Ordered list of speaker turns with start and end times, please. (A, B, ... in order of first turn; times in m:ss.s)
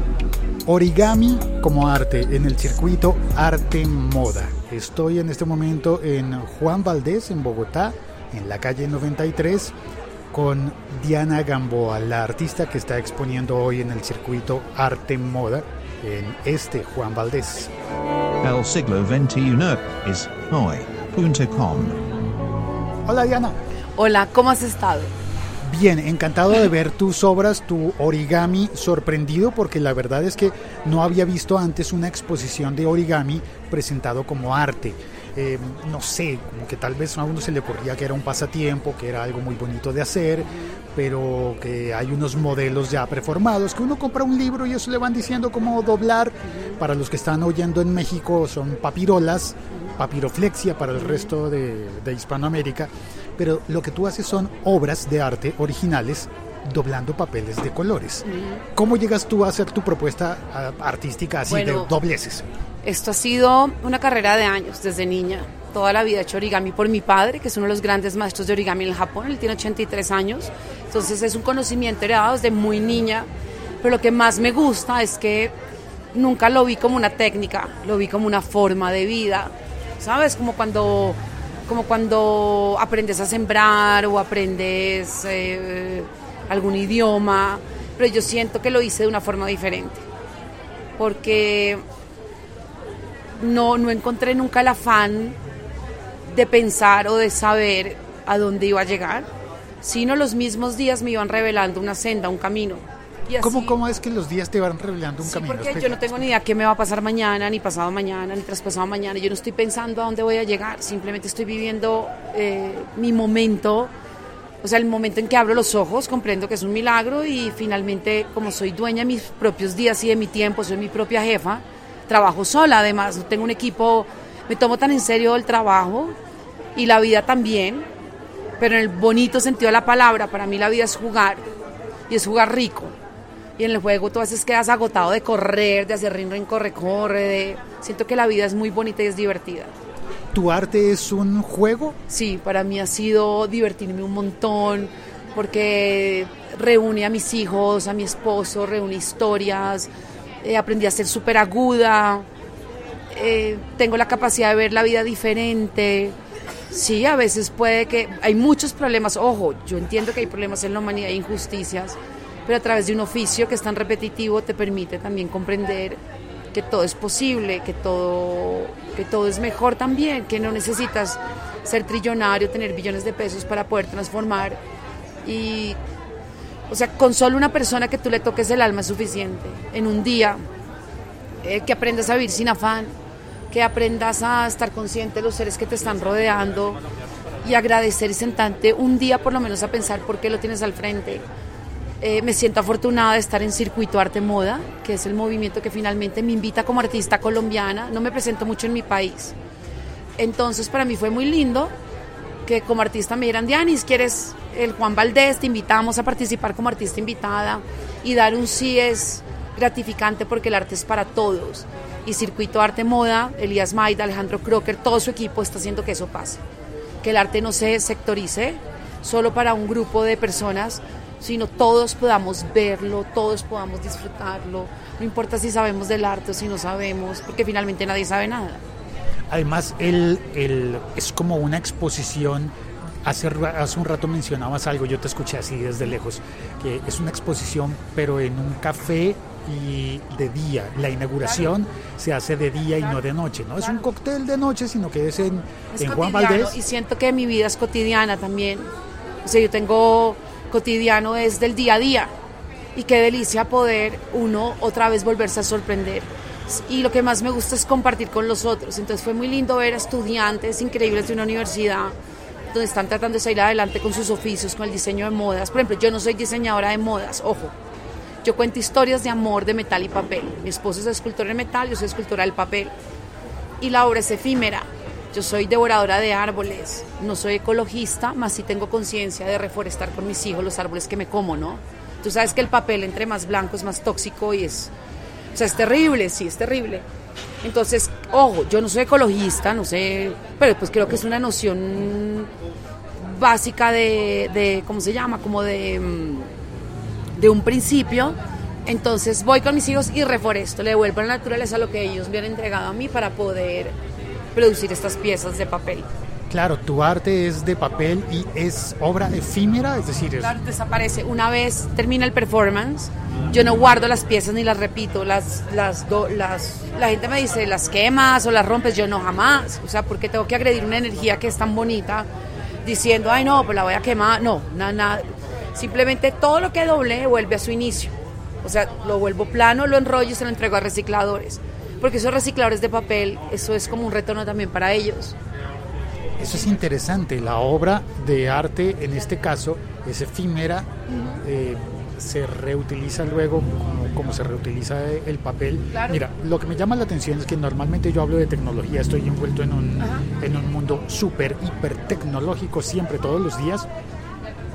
0:00.7-0:09.7 A
0:10.3-0:17.7 A
0:18.4-0:22.0 B
0:23.1-0:23.6 A
0:24.0-0:25.1 C
0:25.6-1:02.5 A
0:40.5-0:40.8 C
0:46.5-0:46.8 C
0:51.0-0:51.3 C
0:58.3-0:58.6 C
1:01.5-1:01.9 C
1:02.8-1:13.3 C
1:13.8-1:15.5 C
1:16.1-1:30.0 C
1:31.0-1:31.8 C
1:33.4-1:35.4 C
1:36.3-1:39.3 C
1:39.8-1:43.8 C
1:43.4-1:46.3 A
1:45.2-1:53.9 C
1:54.6-2:06.2 C
2:06.8-2:07.9 C
2:08.6-2:11.4 C
2:12.1-2:13.0 C
2:13.6-2:19.7 C
2:20.3-2:22.0 A
2:22.1-2:29.9 C
2:30.4-2:32.3 C
2:33.1-2:36.2 C
2:36.7-2:46.0 C
2:46.5-2:54.6 C
2:55.2-2:55.8 C
2:56.7-3:00.4 C
3:01.4-3:02.9 C
3:03.5-3:06.8 C
3:07.4-3:11.3 C
3:12.0-3:19.4 C
3:20.2-3:21.7 C
3:22.4-3:36.4 C
3:37.0-3:48.6 C
3:49.3-4:06.6 A
4:05.7-4:08.7 C
4:09.2-4:12.1 C
4:12.8-4:22.0 C
4:22.5-4:27.5 C
4:28.2-4:32.7 C
4:33.6-4:44.7 C
4:45.3-4:46.8 C
4:47.4-4:52.3 C
4:53.0-4:56.3 C
4:57.2-5:03.7 C
5:04.3-5:05.9 C
5:06.3-5:10.4 A
5:10.2-5:22.1 C
5:22.6-5:35.2 C
5:36.2-5:53.7 A
5:40.9-5:41.2 C
5:45.7-5:46.0 C
5:49.8-5:50.1 C